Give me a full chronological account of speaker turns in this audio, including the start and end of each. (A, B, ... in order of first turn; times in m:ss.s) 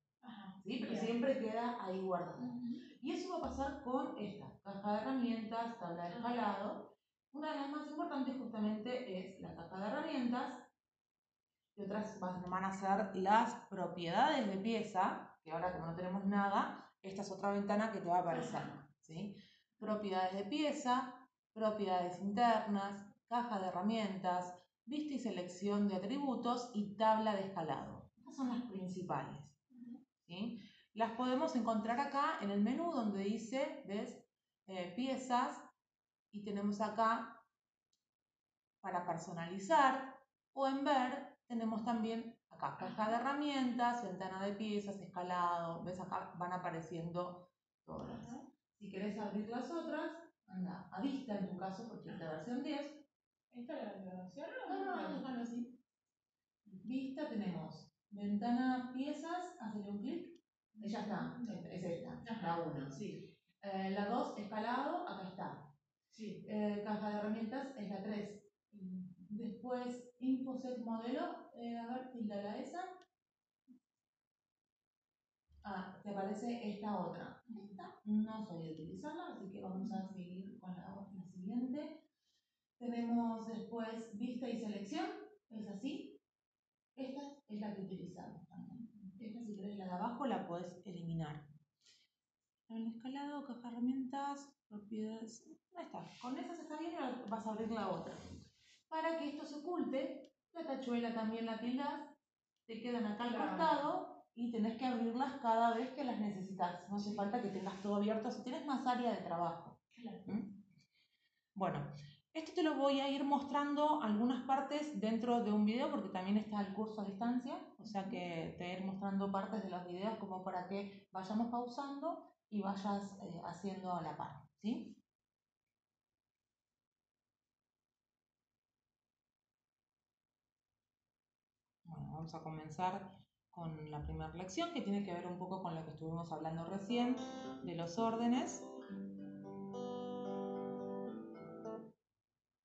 0:00.2-0:01.2 A
0:00.6-0:10.6 B
0:02.4-0:02.9 A
0:06.1-0:06.5 A
0:11.7-0:29.5 B
0:18.3-0:18.7 A
0:29.7-0:30.0 A
0:30.2-0:35.7 B
0:36.3-0:37.4 B
0:38.8-0:53.0 B
0:42.8-0:43.2 A
0:48.0-0:48.5 A
0:53.5-0:55.2 A
0:54.7-0:55.8 B
0:56.8-1:03.1 B
1:00.7-1:03.2 A
1:03.6-1:05.7 B
1:06.1-1:06.4 A
1:06.4-1:08.5 B
1:08.7-1:09.2 A
1:09.2-1:13.0 B
1:15.6-1:22.0 B
1:17.5-1:17.8 A
1:22.8-1:26.2 B
1:26.9-1:31.5 B
1:28.8-1:29.2 A
1:32.7-1:42.1 B
1:42.7-1:50.6 B
1:43.2-1:43.9 A
1:47.0-1:47.3 A
1:49.9-1:50.2 A
1:51.5-2:05.0 B
1:57.8-1:58.2 A
2:11.8-2:18.7 B